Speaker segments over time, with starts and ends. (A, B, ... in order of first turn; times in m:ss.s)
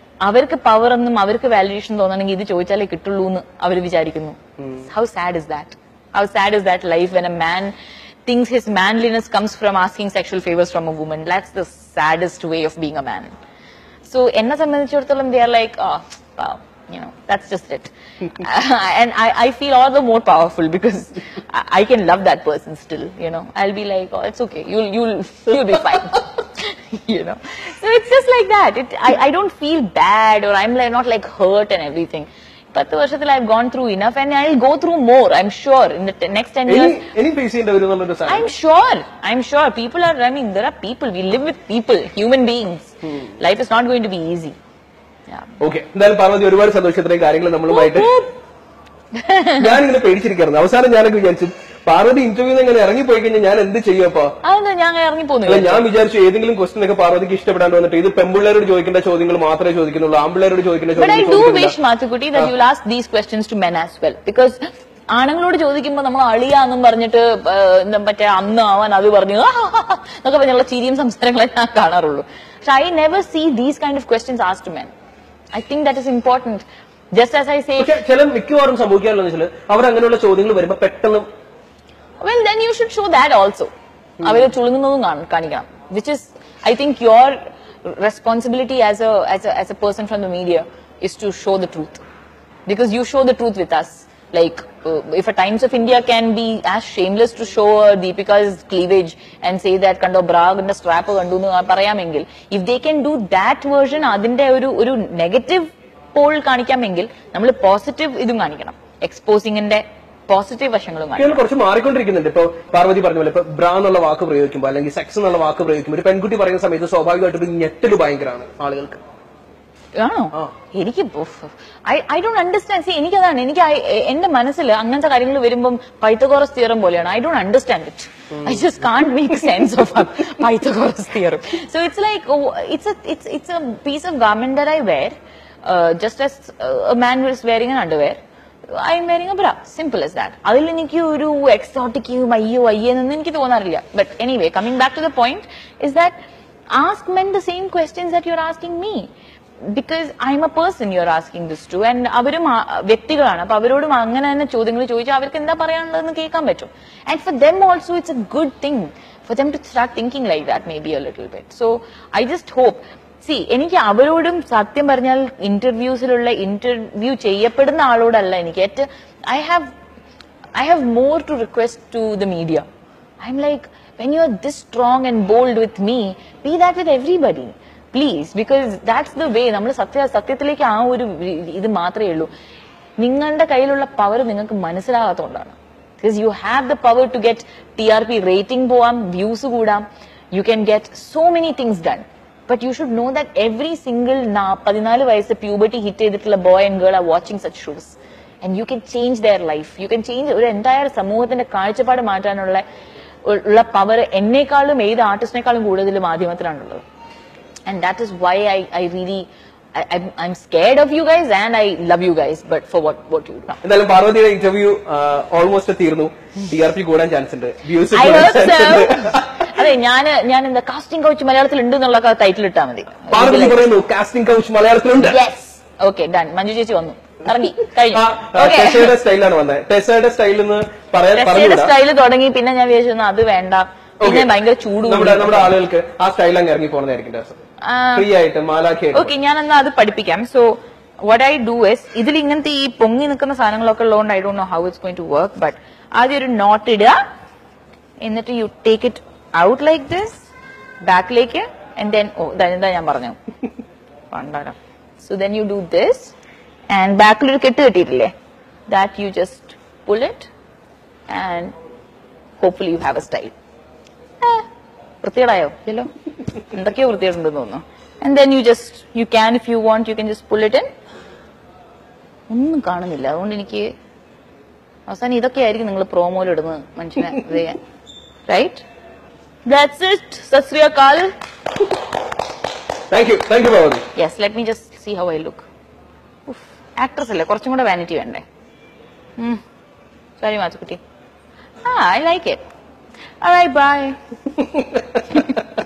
0:00.2-0:07.7 A
0:08.2-0:13.3 A
0:14.0-0:37.0 A
0:36.7-0:38.5 B
0:38.3-0:44.6 A
0:45.3-0:45.5 A
0:45.6-0:48.1 B
0:47.7-0:48.3 A
0:49.2-0:49.7 A
0:49.6-0:54.3 B
0:54.4-0:55.8 A
0:55.4-1:01.7 B
1:01.0-1:14.9 A
1:15.5-1:18.0 A
1:17.8-1:21.2 B
1:22.2-1:32.0 A
1:32.6-1:51.4 A
1:51.2-1:59.0 B
2:00.0-2:26.2 A
2:26.7-2:29.1 A
2:29.7-2:49.7 A
2:50.6-2:52.7 A
2:53.2-3:02.3 A
3:03.0-3:22.6 A
3:23.2-3:26.8 A
3:27.7-3:33.6 A
3:33.6-3:39.6 B
3:37.9-3:43.6 A
3:43.1-3:45.2 B
3:45.0-3:48.9 A
3:47.9-3:51.7 B
3:51.1-3:55.5 A
3:54.0-3:54.3 B
3:54.8-3:57.4 B
3:57.6-3:58.1 A
3:57.9-3:59.1 B
3:58.9-4:07.0 A
4:08.0-4:10.3 A
4:10.8-4:13.2 A
4:14.1-4:16.1 A
4:16.7-4:18.1 A
4:18.7-4:20.3 A
4:21.1-4:21.5 A
4:22.4-4:23.3 A
4:24.2-4:24.4 A
4:25.0-4:25.9 A
4:26.5-4:30.7 A
4:32.3-4:33.7 A
4:34.9-4:37.6 A
4:38.3-4:38.6 A
4:39.4-4:41.1 A
4:42.9-4:43.8 B
4:44.0-4:45.4 A
4:46.3-4:48.2 A
4:50.2-4:50.8 A
4:51.6-4:52.4 A
4:53.2-4:54.0 A
4:54.4-4:55.2 B